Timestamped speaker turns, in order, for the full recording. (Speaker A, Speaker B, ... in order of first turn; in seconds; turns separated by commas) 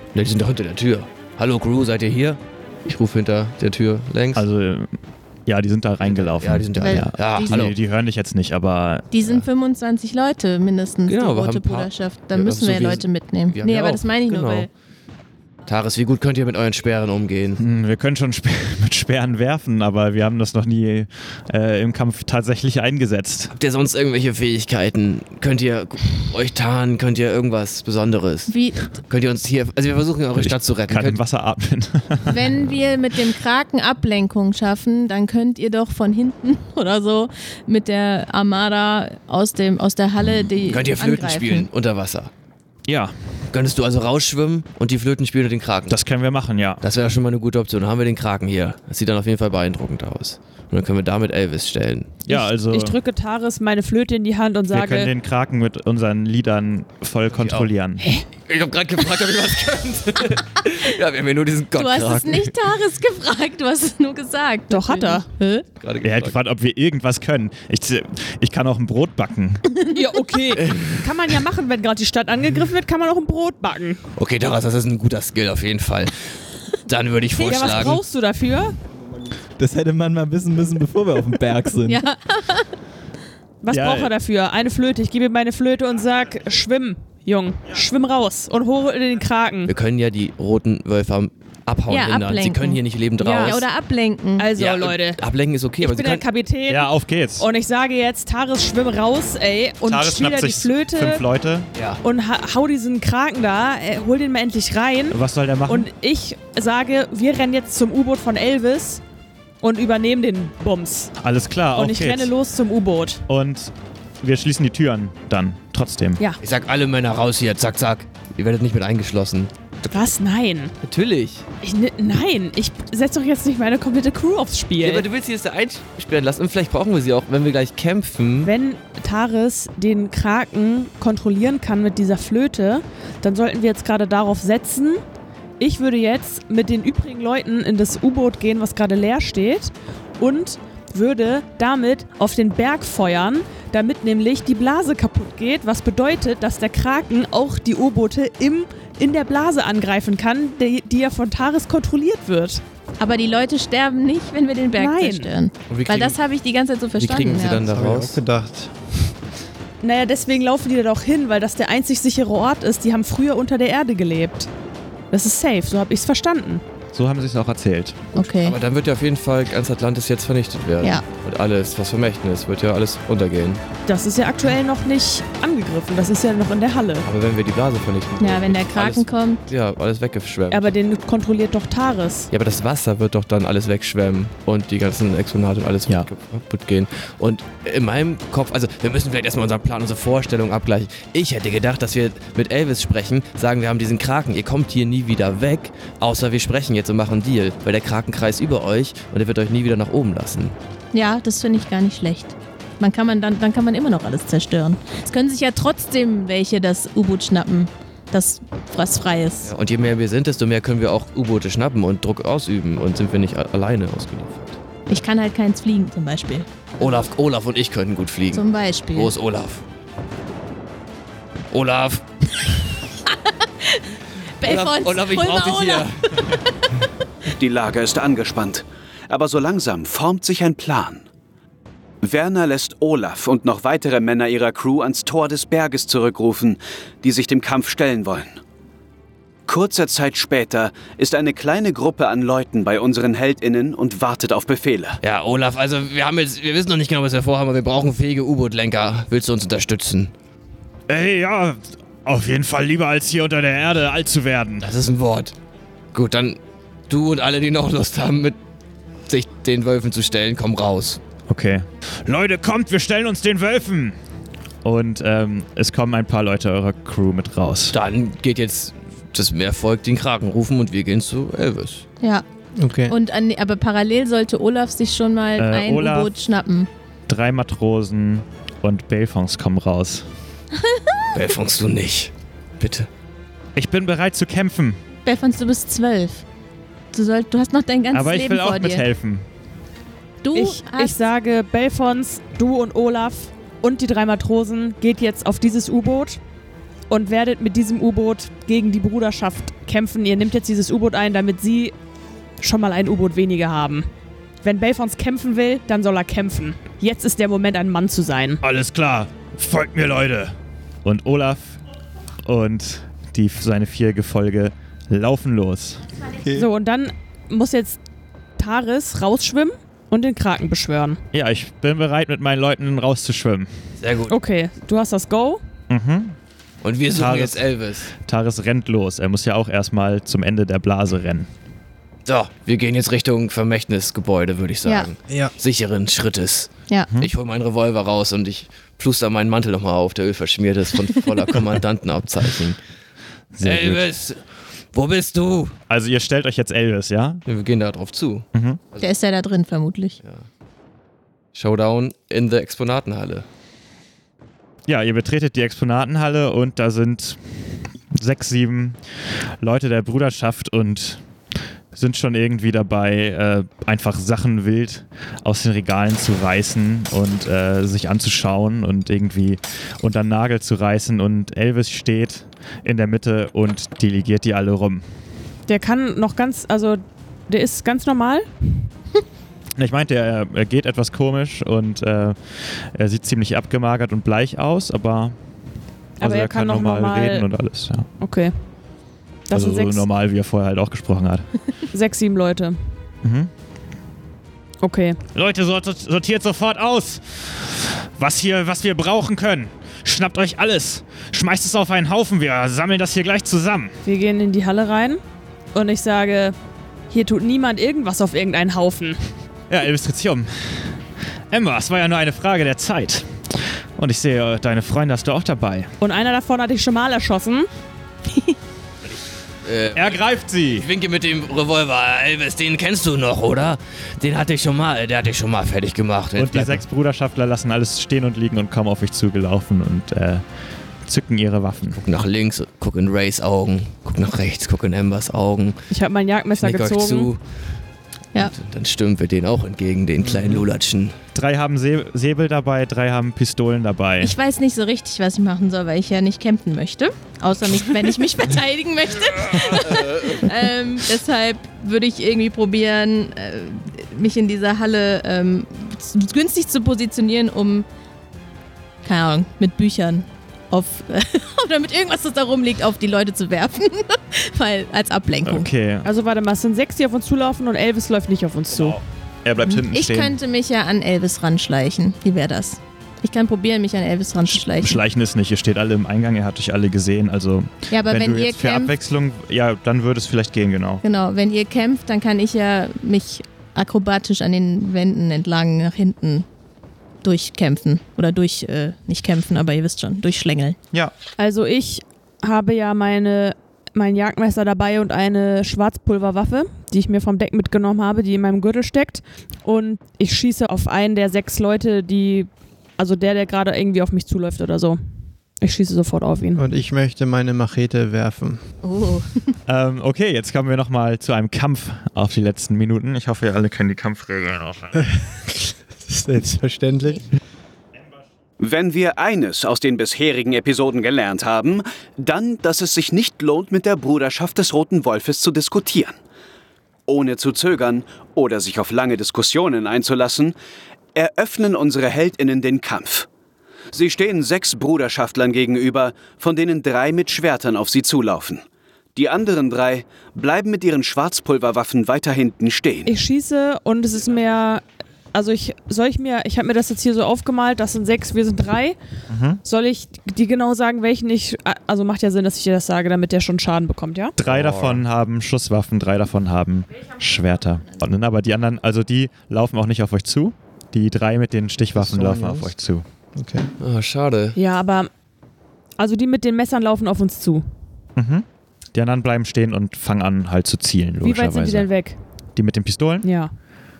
Speaker A: 0.1-4.4, Speaker B: 4.3-4.9, Speaker B: 5.5-9.3, Speaker A: 6.0-7.7, Speaker C: 6.8-7.7, Speaker C: 9.1-14.7, Speaker A: 11.1-14.7, Speaker A: 15.7-17.6, Speaker B: 17.6-23.5, Speaker A: 23.5-31.2, Speaker C: 28.5-28.9, Speaker B: 30.4-32.8, Speaker C: 32.3-41.7, Speaker A: 40.6-42.3, Speaker B: 42.9-43.1, Speaker A: 43.5-46.0, Speaker B: 45.9-46.8, Speaker A: 46.8-52.2, Speaker B: 52.2-53.0, Speaker D: 52.3-55.1, Speaker B: 54.7-58.0, Speaker A: 57.3-57.7, Speaker A: 58.5-62.5, Speaker C: 61.8-65.7, Speaker D: 64.7-65.3, Speaker A: 65.8-66.4, Speaker B: 66.0-69.7, Speaker D: 69.9-74.0, Speaker A: 70.5-71.3, Speaker A: 74.2-76.3, Speaker A: 76.8-78.0, Speaker D: 77.4-78.8, Speaker E: 79.6-82.0, Speaker C: 81.8-82.7, Speaker D: 83.6-89.7, Speaker B: 83.7-84.1, Speaker A: 89.7-93.7, Speaker C: 91.9-94.5, Speaker D: 94.4-95.2, Speaker A: 94.5-96.2, Speaker D: 95.8-101.2, Speaker B: 96.7-97.5, Speaker B: 99.8-101.7, Speaker A: 101.7-102.0, Speaker D: 102.0-109.0, Speaker B: 105.1-105.9, Speaker D: 109.6-111.1, Speaker B: 111.2-112.3, Speaker D: 111.7-113.2, Speaker B: 113.3-116.2, Speaker A: 116.4-120.0, Speaker D: 119.9-120.7, Speaker A: 120.8-121.4, Speaker D: 121.6-125.0, Speaker A: 124.8-128.5, Speaker D: 128.4-135.0, Speaker D: 135.6-152.6, Speaker C: 153.0-157.7, Speaker D: 154.7-155.3, Speaker A: 155.7-156.2, Speaker A: 157.0-158.2, Speaker F: 157.6-158.8, Speaker D: 159.8-164.5, Speaker D: 165.1-166.6, Speaker B: 166.9-168.1, Speaker C: 168.1-168.6, Speaker A: 168.2-173.6, Speaker D: 173.8-177.1, Speaker A: 177.0-180.7, Speaker C: 178.2-179.4, Speaker D: 180.5-182.3, Speaker A: 182.3-200.6, Speaker C: 200.9-209.5, Speaker A: 209.4-214.6, Speaker C: 214.9-217.0, Speaker A: 216.8-219.6, Speaker C: 218.3-219.1, Speaker A: 221.5-222.0, Speaker C: 223.1-223.9, Speaker C: 224.4-226.4, Speaker A: 224.4-226.3, Speaker G: 227.3-231.0, Speaker G: 232.0-238.4, Speaker G: 239.5-245.0, Speaker A: 245.0-250.1, Speaker B: 250.9-254.7, Speaker A: 254.6-255.3, Speaker A: 255.9-258.4, Speaker A: 259.1-261.0, Speaker B: 261.3-263.9, Speaker B: 264.6-267.8, Speaker A: 267.7-271.8, Speaker F: 272.6-272.9, Speaker C: 272.9-276.7, Speaker B: 275.4-276.1, Speaker B: 277.1-280.1, Speaker C: 280.6-281.0, Speaker A: 281.1-282.9, Speaker B: 283.6-284.8, Speaker C: 285.0-286.2, Speaker C: 286.9-288.9, Speaker B: 287.9-289.2, Speaker C: 290.2-291.0, Speaker D: 290.3-296.2, Speaker D: 296.9-301.7, Speaker D: 302.4-303.9, Speaker D: 304.4-308.4, Speaker B: 308.4-311.6, Speaker B: 312.2-315.8, Speaker D: 316.3-317.8, Speaker D: 318.4-321.0, Speaker B: 321.1-323.5, Speaker A: 323.8-324.1, Speaker D: 324.1-325.4, Speaker B: 325.7-326.1, Speaker A: 326.6-327.9, Speaker B: 326.9-327.5, Speaker B: 328.0-331.3, Speaker A: 332.1-342.6, Speaker C: 334.6-334.9, Speaker F: 335.1-335.3, Speaker B: 343.3-343.8, Speaker A: 343.4-345.6, Speaker B: 345.7-347.2, Speaker A: 347.2-348.9, Speaker B: 348.3-348.6, Speaker C: 348.8-350.0, Speaker A: 351.3-353.2, Speaker B: 354.7-357.2, Speaker B: 357.9-358.8, Speaker B: 359.4-361.0, Speaker B: 361.7-374.8, Speaker D: 375.5-378.3, Speaker B: 379.6-385.1, Speaker B: 386.0-387.9, Speaker D: 386.0-387.3, Speaker D: 388.0-388.4, Speaker D: 389.3-389.9, Speaker B: 389.3-391.3, Speaker D: 391.7-392.6, Speaker B: 393.0-393.3, Speaker D: 394.6-395.0, Speaker B: 395.1-403.7, Speaker D: 403.8-405.0, Speaker D: 405.5-406.4, Speaker D: 406.9-409.0, Speaker B: 409.5-410.7, Speaker B: 411.3-413.1, Speaker B: 413.8-415.7, Speaker D: 415.8-417.5, Speaker C: 418.1-418.4, Speaker A: 418.9-426.6, Speaker B: 419.7-420.7, Speaker B: 426.1-430.2, Speaker B: 430.8-431.8, Speaker A: 431.7-435.6, Speaker D: 435.7-437.1, Speaker A: 436.4-437.2, Speaker A: 438.2-440.9, Speaker F: 440.0-440.4, Speaker B: 441.1-444.1, Speaker C: 444.0-457.6, Speaker A: 449.6-450.2, Speaker C: 458.8-465.5, Speaker B: 465.2-465.9, Speaker D: 465.8-468.8, Speaker B: 468.5-470.2, Speaker C: 469.4-474.8, Speaker B: 474.3-480.8, Speaker C: 477.7-478.7, Speaker C: 480.8-486.2, Speaker C: 487.0-490.6, Speaker D: 491.2-504.8, Speaker D: 505.4-506.5, Speaker F: 506.4-508.4, Speaker C: 508.6-509.1, Speaker B: 509.4-514.9, Speaker F: 514.8-517.0, Speaker G: 518.4-526.0, Speaker G: 526.9-530.3, Speaker G: 530.9-533.1, Speaker G: 533.7-538.4, Speaker G: 538.9-542.9, Speaker D: 542.9-548.8, Speaker B: 549.1-549.4, Speaker D: 549.4-554.2, Speaker B: 554.2-562.8, Speaker A: 554.2-554.8, Speaker F: 561.7-562.5, Speaker F: 563.1-563.5, Speaker A: 563.6-564.4, Speaker D: 564.3-564.9, Speaker D: 565.8-567.5, Speaker B: 568.0-571.7, Speaker D: 571.0-572.0, Speaker B: 572.3-573.1, Speaker D: 573.0-573.3